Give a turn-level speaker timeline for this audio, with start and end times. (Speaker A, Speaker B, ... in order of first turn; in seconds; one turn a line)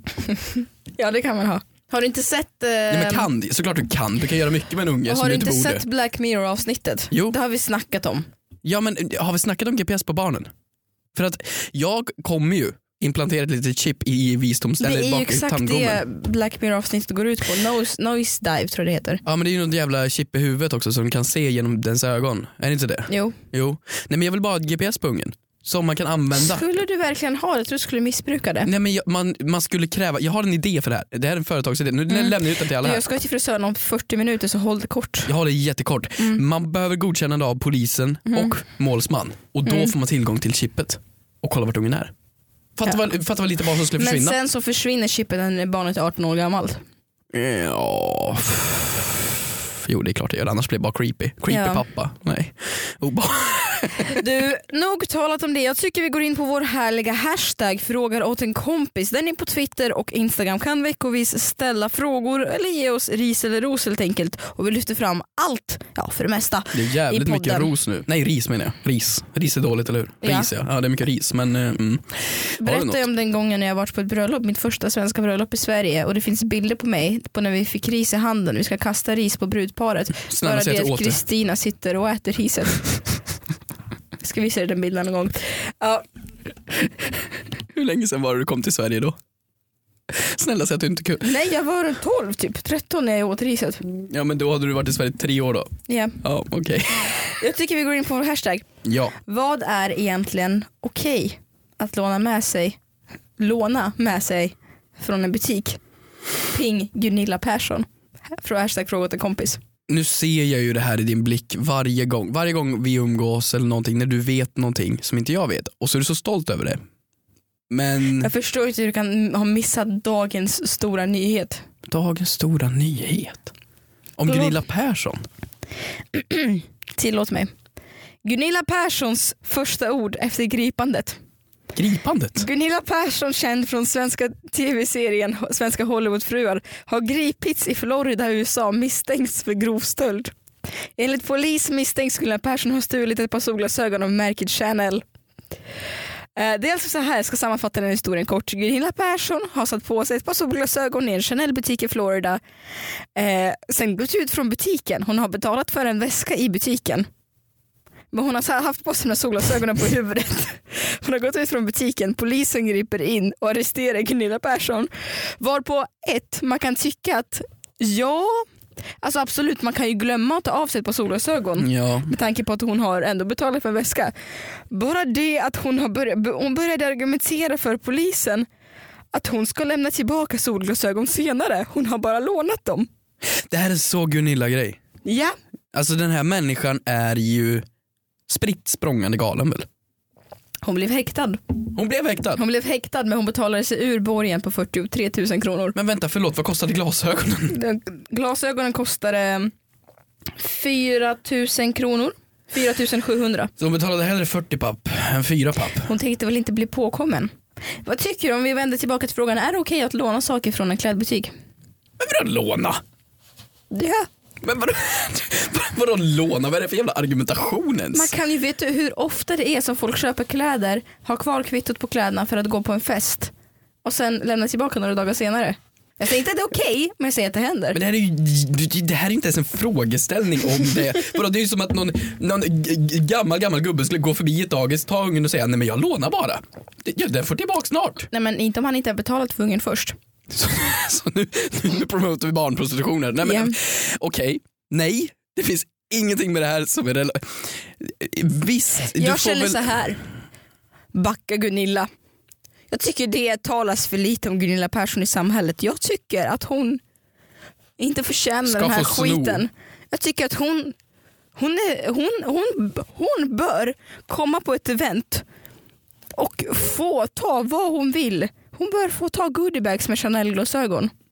Speaker A: 0.3-3.3
Speaker B: 2.9-5.8
Speaker A: 5.0-8.3
Speaker B: 8.6-10.5
Speaker B: 11.1-16.0
Speaker A: 14.8-19.2
Speaker B: 19.2-26.6
Speaker A: 23.1-23.4
Speaker A: 26.4-28.7
Speaker B: 28.6-33.0
Speaker A: 32.1-35.3
Speaker B: 35.3-42.1
Speaker A: 38.3-38.5
Speaker B: 42.8-44.4
Speaker A: 43.9-46.8
Speaker B: 47.3-54.2
Speaker A: 51.5-51.8
Speaker A: 54.0-67.7
Speaker B: 66.7-73.0
Speaker A: 70.2-70.5
Speaker A: 72.6-82.9
Speaker B: 80.3-81.2
Speaker A: 84.2-86.0
Speaker B: 87.7-89.2
Speaker B: 90.1-91.3
Speaker A: 91.2-93.8
Speaker B: 93.8-95.7
Speaker A: 95.9-96.2
Speaker B: 96.2-97.1
Speaker A: 97.2-98.7
Speaker B: 98.8-99.1
Speaker A: 99.2-102.8
Speaker A: 103.4-105.8
Speaker A: 106.5-109.6
Speaker B: 109.9-116.8
Speaker B: 117.7-118.3
Speaker A: 118.2-121.6
Speaker B: 121.9-123.5
Speaker B: 124.2-125.2
Speaker A: 124.3-124.5
Speaker A: 126.1-127.5
Speaker A: 128.2-131.2
Speaker B: 131.7-132.4
Speaker A: 132.4-140.3
Speaker A: 141.0-145.0
Speaker A: 146.3-152.4
Speaker A: 153.1-157.1
Speaker A: 158.1-168.5
Speaker A: 169.0-174.1
Speaker B: 171.6-172.1
Speaker A: 174.7-178.5
Speaker A: 179.1-182.9
Speaker B: 183.5-184.8
Speaker A: 185.0-185.3
Speaker B: 185.7-187.6
Speaker B: 188.3-189.7
Speaker A: 190.6-191.4
Speaker B: 191.7-192.4
Speaker A: 192.3-195.8
Speaker B: 195.7-197.6
Speaker A: 197.5-199.5
Speaker A: 200.4-203.5
Speaker B: 203.6-205.9
Speaker A: 205.8-207.3
Speaker A: 207.8-211.3
Speaker B: 212.0-212.8
Speaker A: 213.7-214.1
Speaker B: 214.4-218.1
Speaker A: 217.9-223.3
Speaker A: 223.8-227.8
Speaker B: 227.7-238.1
Speaker A: 238.1-239.9
Speaker B: 240.3-249.7
Speaker A: 243.2-243.6
Speaker A: 248.9-250.0
Speaker A: 250.9-251.9
Speaker A: 252.7-256.8
Speaker A: 257.8-260.7
Speaker B: 258.5-259.4
Speaker A: 261.4-265.2
Speaker A: 266.1-270.9